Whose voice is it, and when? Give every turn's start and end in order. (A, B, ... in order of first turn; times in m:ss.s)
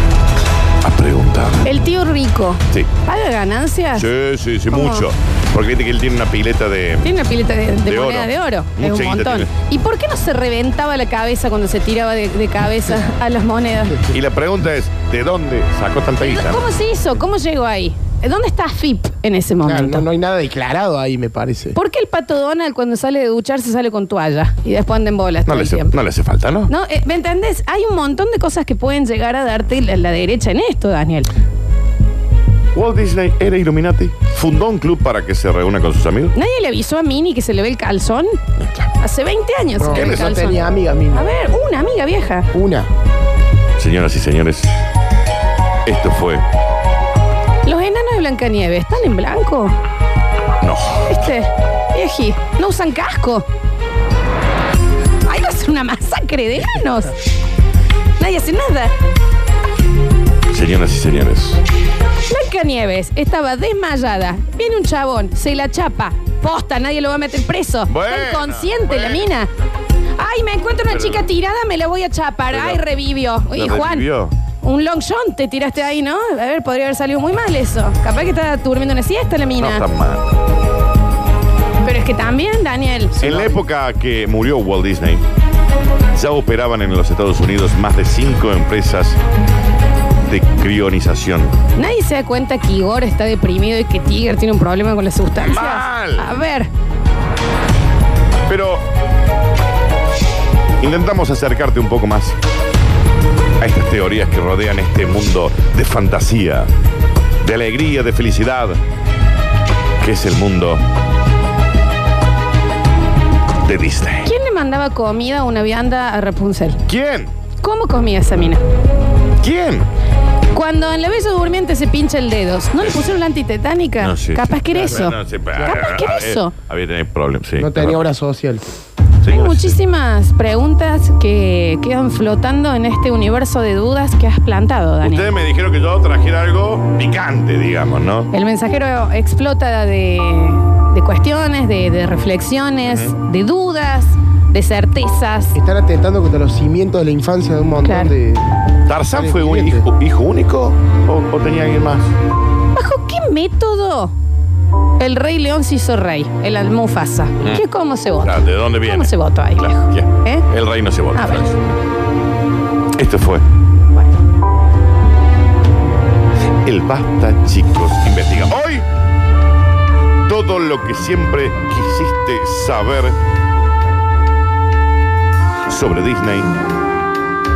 0:00.8-0:01.7 A
0:01.6-0:04.1 B
0:04.0-0:07.1 A
0:04.7-0:05.1 B
0:07.0-0:14.0 B
0:07.9-0:09.5 A
0:14.1-0:16.6 A
0:16.2-0:20.1 B
0:19.6-0:21.8 C
0:21.8-0:25.9 B
0:25.5-0:26.7 A
0:26.7-0:31.3 B
0:32.7-0:36.3 A
0:36.3-0:38.4 B
0:38.6-0:38.9 A
0:39.0-0:42.5 B
0:39.8-0:41.3 C
0:39.9-0:40.6 A
0:42.5-0:42.9 C
0:43.8-0:44.7 A
0:45.8-0:46.4 A
0:47.6-0:49.8 B
0:50.6-0:51.2 A
0:51.1-0:53.5 B
0:55.3-0:57.2 B
0:58.2-0:58.9 B
1:00.5-1:01.6 A
1:02.3-1:09.5 B
1:07.9-1:09.3 A
1:10.2-1:14.1 B
1:10.9-1:11.3 A
1:12.5-1:12.8 A
1:13.5-1:14.3 A
1:14.6-1:19.8 B
1:19.6-1:20.3 A
1:21.8-1:23.2 B
1:23.1-1:23.6 C
1:23.2-1:25.2 A
1:26.1-1:29.2 A
1:30.3-1:31.6 A
1:31.8-1:36.7 B
1:35.4-1:36.3 A
1:38.5-1:38.8 A
1:40.8-1:42.4 A
1:43.6-1:46.7 A
1:47.4-1:48.8 A
1:50.0-1:50.8 A
1:53.6-1:54.3 A
1:54.2-1:56.8 B
1:56.9-1:57.3 A
1:57.6-1:58.6 B
1:59.4-1:59.9 A
2:00.5-2:06.6 B
2:04.0-2:08.1 A
2:04.7-2:05.0 C
2:07.6-2:08.6 C
2:09.2-2:09.8 A
2:09.3-2:15.3 B
2:15.0-2:18.3 A
2:18.3-2:25.6 B
2:22.8-2:23.1 A
2:25.5-2:28.6 C
2:27.8-2:28.1 B
2:28.9-2:32.1 A
2:29.1-2:29.9 C
2:32.8-2:34.2 B
2:35.0-2:40.5 B
2:38.2-2:41.7 A
2:41.1-2:41.4 B
2:43.0-2:43.4 A
2:46.6-2:48.9 A
2:50.3-2:53.2 A
2:55.7-2:56.5 A